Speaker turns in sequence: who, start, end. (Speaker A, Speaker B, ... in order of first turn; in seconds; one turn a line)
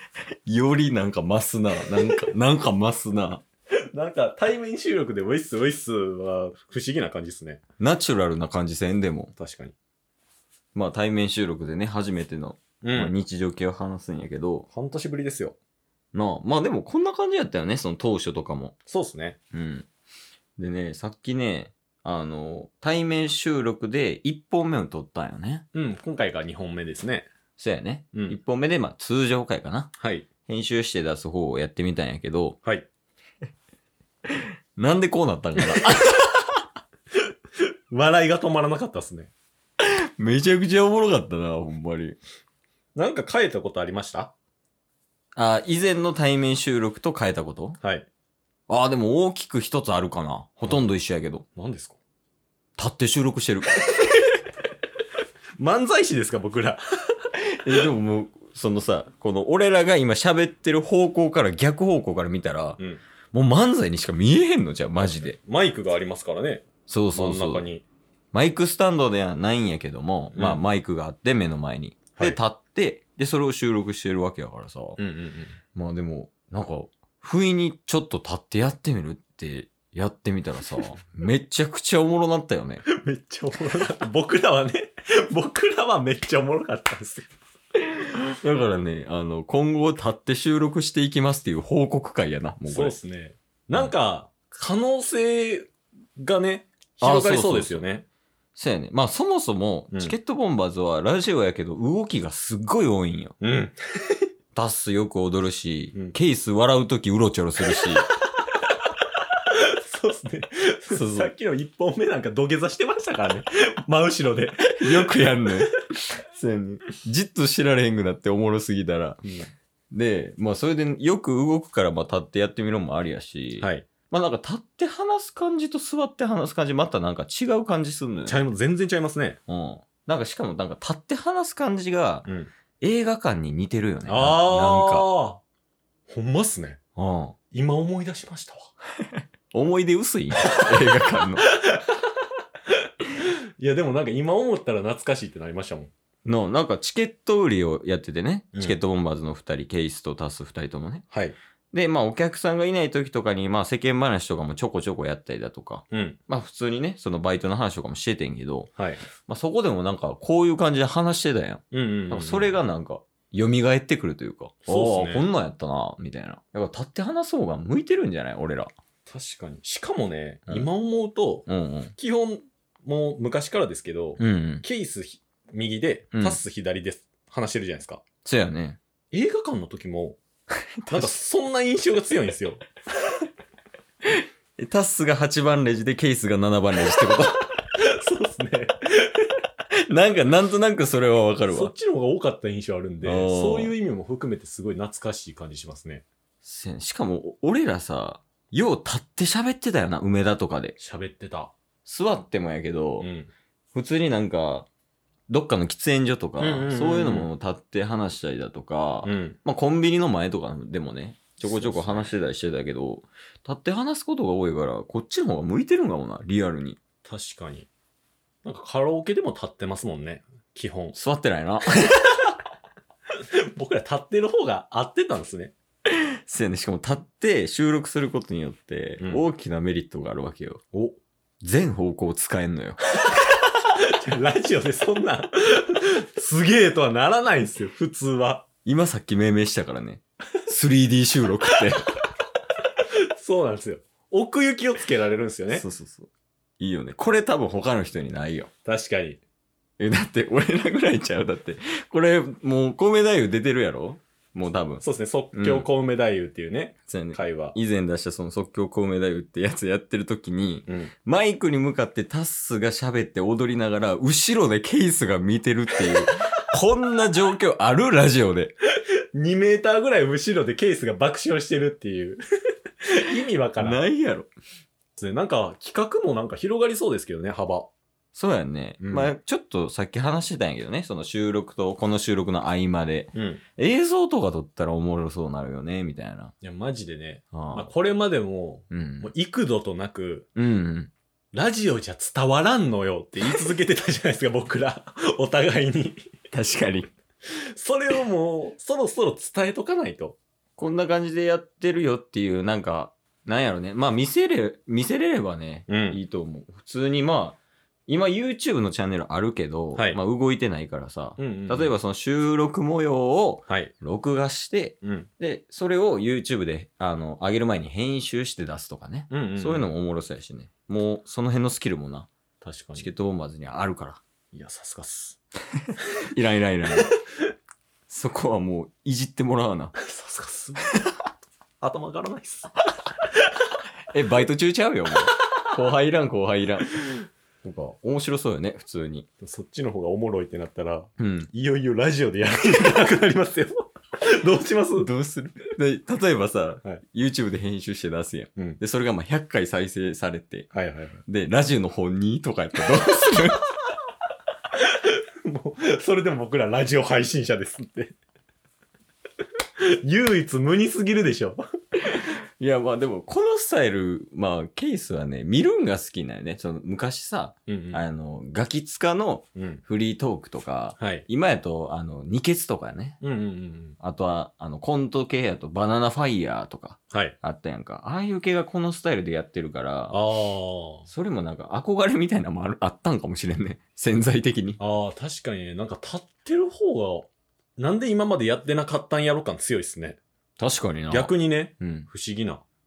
Speaker A: 0.5-3.4
Speaker B: 3.9-7.6
Speaker A: 7.8-9.3
Speaker B: 9.4-9.8
Speaker A: 10.7-14.7
Speaker B: 12.8-13.1
Speaker B: 14.7-15.6
Speaker A: 16.1-18.8
Speaker B: 18.9-19.4
Speaker A: 19.5-19.9
Speaker A: 20.6-25.6
Speaker B: 25.7-27.3
Speaker A: 27.6-29.9
Speaker B: 30.0-30.3
Speaker A: 30.5-32.6
Speaker A: 34.3-36.6
Speaker B: 37.9-39.3
Speaker A: 39.8-42.2
Speaker B: 43.0-44.3
Speaker A: 45.4-47.8
Speaker B: 47.8-48.1
Speaker A: 48.7-51.5
Speaker B: 51.6-52.0
Speaker A: 52.8-54.2
Speaker B: 55.6-56.8
Speaker A: 57.5-62.8
Speaker A: 63.3-65.4
Speaker B: 65.0-67.8
Speaker A: 66.9-67.7
Speaker A: 68.3-75.0
Speaker B: 70.3-70.6
Speaker B: 75.0-75.6
Speaker A: 75.8-82.8
Speaker B: 82.9-87.3
Speaker A: 88.4-93.0
Speaker B: 92.7-98.0
Speaker A: 97.0-97.9
Speaker A: 98.6-103.3
Speaker B: 103.4-104.2
Speaker A: 104.5-108.1
Speaker B: 109.5-115.6
Speaker A: 110.9-111.3
Speaker A: 114.7-119.2
Speaker B: 119.2-119.5
Speaker A: 119.9-128.4
Speaker B: 123.6-123.9
Speaker B: 128.3-129.4
Speaker A: 129.5-132.3
Speaker B: 132.3-132.5
Speaker A: 132.8-135.1
Speaker B: 134.1-135.4
Speaker B: 136.1-136.8
Speaker A: 137.0-137.4
Speaker B: 137.5-138.7
Speaker A: 139.2-141.5
Speaker B: 141.5-141.8
Speaker B: 143.2-145.9
Speaker A: 146.2-151.1
Speaker B: 151.1-151.4
Speaker A: 151.7-158.7
Speaker B: 155.9-156.2
Speaker B: 158.8-159.0
Speaker A: 159.2-168.7
Speaker B: 161.7-162.6
Speaker B: 164.7-165.2
Speaker B: 169.1-178.0
Speaker A: 171.5-171.9
Speaker A: 174.2-174.7
Speaker A: 178.2-178.8
Speaker B: 179.1-180.2
Speaker A: 180.8-181.2
Speaker B: 180.9-182.6
Speaker A: 184.6-187.4
Speaker B: 187.8-189.2
Speaker A: 189.9-191.7
Speaker B: 191.5-196.1
Speaker A: 193.0-193.7
Speaker A: 196.4-200.8
Speaker B: 200.8-201.5
Speaker A: 201.8-203.1
Speaker B: 203.0-203.3
Speaker A: 203.7-204.7
Speaker A: 205.3-216.8
Speaker B: 206.4-207.3
Speaker B: 209.0-209.4
Speaker B: 211.4-212.1
Speaker B: 217.1-217.7
Speaker B: 218.4-221.0
Speaker A: 220.9-221.8
Speaker B: 223.5-225.5
Speaker A: 226.2-230.6
Speaker B: 229.0-229.2
Speaker B: 230.7-231.0
Speaker A: 231.4-232.8
Speaker B: 233.8-238.5
Speaker A: 238.7-242.0
Speaker B: 243.1-245.7
Speaker A: 245.5-246.1
Speaker A: 246.6-248.5
Speaker B: 248.7-249.2
Speaker A: 249.8-255.7
Speaker B: 254.8-257.6
Speaker A: 256.9-268.5
Speaker B: 269.1-272.2
Speaker B: 272.8-273.8
Speaker A: 273.6-274.3
Speaker B: 275.0-277.7
Speaker A: 278.1-286.3
Speaker B: 278.8-279.1
Speaker B: 283.1-283.4
Speaker B: 286.4-290.3
Speaker A: 287.3-287.7
Speaker A: 288.7-289.1
Speaker A: 290.4-290.9
Speaker B: 291.3-296.1
Speaker A: 296.3-296.9
Speaker B: 297.3-300.2
Speaker A: 300.6-322.1
Speaker B: 305.7-306.0
Speaker B: 309.8-310.0
Speaker B: 311.2-311.7
Speaker B: 314.8-315.1
Speaker B: 319.1-319.7
Speaker B: 322.4-322.9
Speaker A: 322.8-324.0
Speaker B: 324.3-325.2
Speaker A: 326.1-326.9
Speaker A: 327.9-329.8
Speaker B: 329.8-330.8
Speaker B: 331.6-332.6
Speaker A: 333.9-336.7
Speaker A: 337.4-339.1
Speaker B: 339.2-344.9
Speaker A: 341.0-341.3
Speaker A: 344.8-350.5
Speaker B: 350.5-351.0
Speaker A: 351.1-353.5
Speaker B: 354.6-357.9
Speaker B: 359.6-361.4
Speaker A: 361.9-373.0
Speaker B: 367.5-367.8
Speaker B: 369.4-369.6
Speaker B: 370.8-371.1
Speaker B: 373.0-373.8
Speaker A: 373.8-380.0
Speaker B: 376.9-377.2
Speaker B: 379.9-380.9
Speaker A: 380.9-384.6
Speaker B: 384.6-390.0
Speaker A: 390.4-391.9
Speaker B: 390.9-392.4